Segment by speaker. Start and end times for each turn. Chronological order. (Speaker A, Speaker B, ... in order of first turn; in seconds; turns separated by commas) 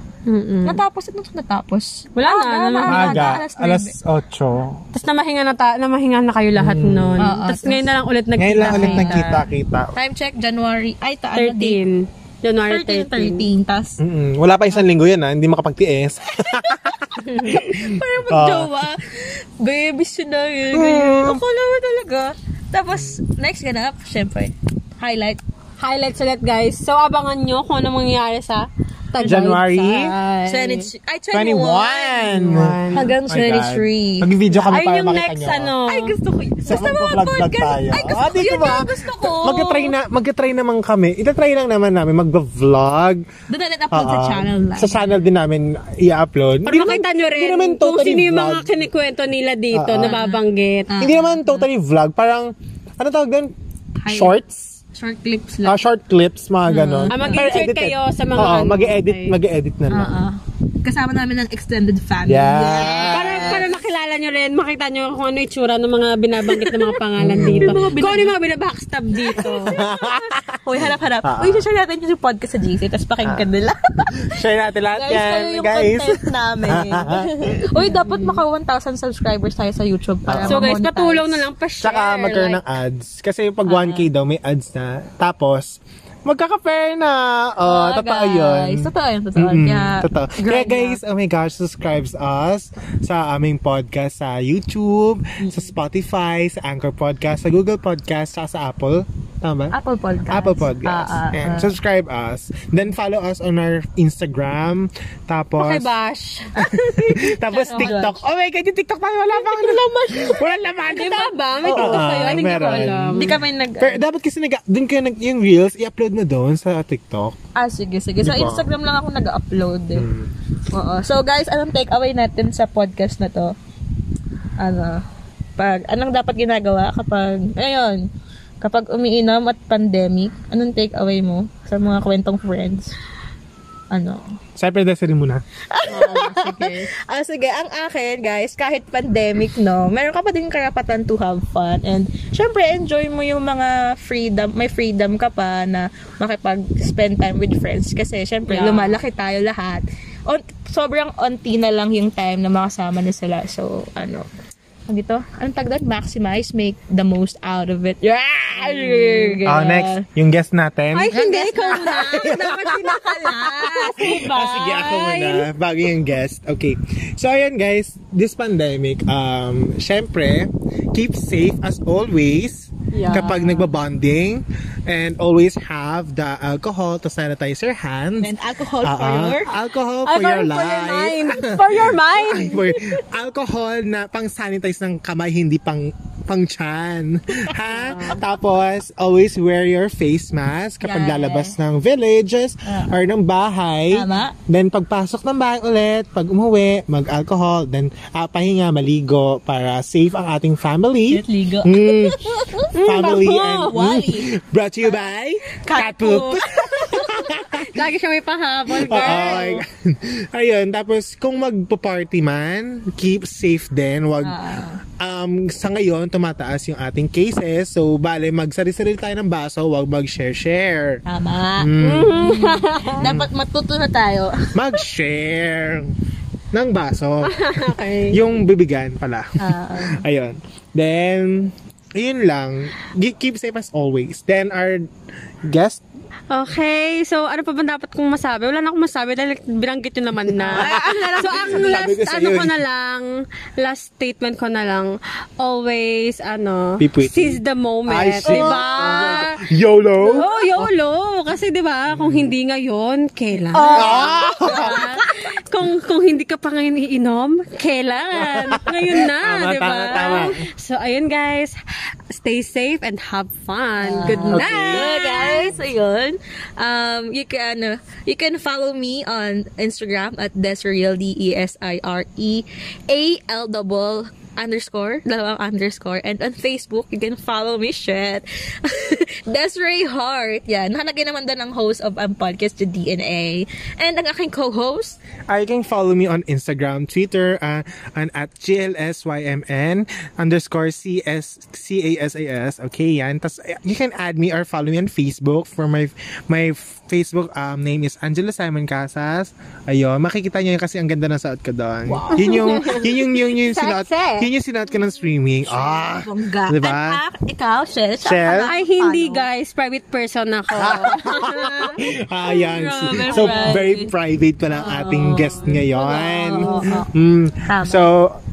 Speaker A: 0.3-0.8, Speaker B: 0.7-4.0, Speaker A: 2.2-3.4, Speaker C: 2.9-4.8, Speaker A: 4.9-9.4, Speaker C: 6.6-7.3, Speaker B: 7.2-7.9, Speaker C: 8.4-10.0, Speaker B: 8.6-9.4, Speaker B: 10.0-11.8, Speaker A: 11.4-13.5, Speaker B: 12.7-14.0, Speaker C: 14.0-18.9, Speaker B: 16.6-25.4, Speaker C: 20.7-21.4, Speaker A: 25.8-30.9, Speaker C: 29.2-30.1, Speaker B: 30.5-34.8, Speaker C: 31.3-35.8, Speaker A: 32.3-33.1, Speaker A: 34.7-37.6, Speaker B: 35.9-39.9, Speaker C: 36.7-43.2, Speaker B: 43.5-45.1, Speaker C: 43.9-48.8, Speaker A: 46.7-51.1, Speaker C: 49.7-50.2, Speaker B: 50.0-51.7, Speaker C: 51.0-53.5, Speaker B: 54.0-54.4, Speaker C: 54.1-54.8, Speaker B: 54.9-55.8, Speaker C: 55.6-60.2, Speaker B: 56.7-57.5, Speaker A: 57.1-59.4, Speaker B: 59.9-63.7, Speaker C: 62.3-63.6, Speaker A: 63.0-69.8, Speaker B: 66.5-68.3, Speaker C: 67.2-67.8, Speaker B: 69.2-74.3, Speaker C: 69.4-71.7, Speaker C: 74.2-77.7, Speaker B: 74.9-81.5, Speaker A: 77.8-78.4, Speaker C: 80.3-80.8, Speaker A: 80.5-82.6, Speaker C: 81.8-99.8, Speaker B: 83.7-84.1, Speaker B: 87.7-91.0, Speaker B: 95.4-95.7, Speaker B: 99.7-101.8, Speaker C: 100.3-105.9, Speaker A: 105.6-106.5, Speaker B: 106.5-108.2, Speaker C: 106.6-117.4, Speaker A: 107.5-108.1, Speaker B: 109.3-110.4, Speaker A: 110.9-113.4, Speaker B: 111.6-114.0, Speaker B: 117.6-120.1, Speaker C: 118.2-118.7, Speaker C: 120.0-120.3, Speaker B: 120.7-123.5, Speaker B: 124.6-125.0, Speaker B: 125.6-128.1, Speaker B: 128.6-132.9, Speaker B: 133.9-134.2, Speaker C: 134.6-135.4, Speaker B: 135.7-154.3, Speaker A: 135.9-136.9, Speaker A: 148.5-149.0, Speaker B: 154.9-160.1, Speaker A: 158.6-159.4, Speaker C: 159.4-161.2, Speaker A: 160.9-165.5, Speaker B: 161.1-163.9, Speaker C: 161.7-162.8, Speaker C: 163.8-178.3, Speaker A: 172.9-173.4, Speaker B: 173.1-173.7, Speaker B: 178.2-179.5, Speaker C: 178.8-207.8, Speaker A: 180.1-182.8, Speaker A: 187.7-188.2, Speaker B: 190.8-191.6, Speaker B: 192.7-193.0, Speaker B: 193.9-194.3, Speaker B: 201.1-204.3, Speaker B: 205.6-207.2, Speaker A: 207.6-209.6, Speaker C: 208.7-214.4, Speaker B: 214.2-214.8, Speaker C: 215.0-221.0, Speaker B: 221.1-224.8, Speaker C: 221.6-222.3, Speaker A: 221.8-223.1, Speaker C: 223.0-223.3, Speaker C: 224.5-225.9, Speaker C: 226.5-234.9, Speaker A: 227.2-228.4, Speaker B: 229.4-230.0, Speaker C: 235.5-235.8, Speaker A: 236.3-249.4, Speaker C: 240.4-242.6, Speaker B: 240.5-241.7, Speaker C: 246.8-250.7, Speaker B: 248.2-249.3, Speaker B: 250.0-250.5, Speaker A: 250.1-261.6, Speaker C: 251.9-252.3, Speaker B: 253.5-255.2, Speaker C: 253.7-254.9, Speaker C: 258.2-260.4, Speaker B: 259.9-260.4, Speaker A: 262.1-265.6, Speaker B: 263.8-285.0, Speaker C: 264.1-265.0, Speaker C: 285.3-307.0, Speaker B: 301.9-302.9, Speaker A: 302.1-304.3, Speaker B: 305.4-309.3, Speaker C: 308.0-308.5, Speaker A: 308.4-311.8, Speaker C: 310.6-318.2, Speaker B: 310.6-313.9, Speaker A: 313.1-313.6, Speaker B: 314.6-316.9, Speaker A: 315.0-316.8, Speaker B: 317.5-317.9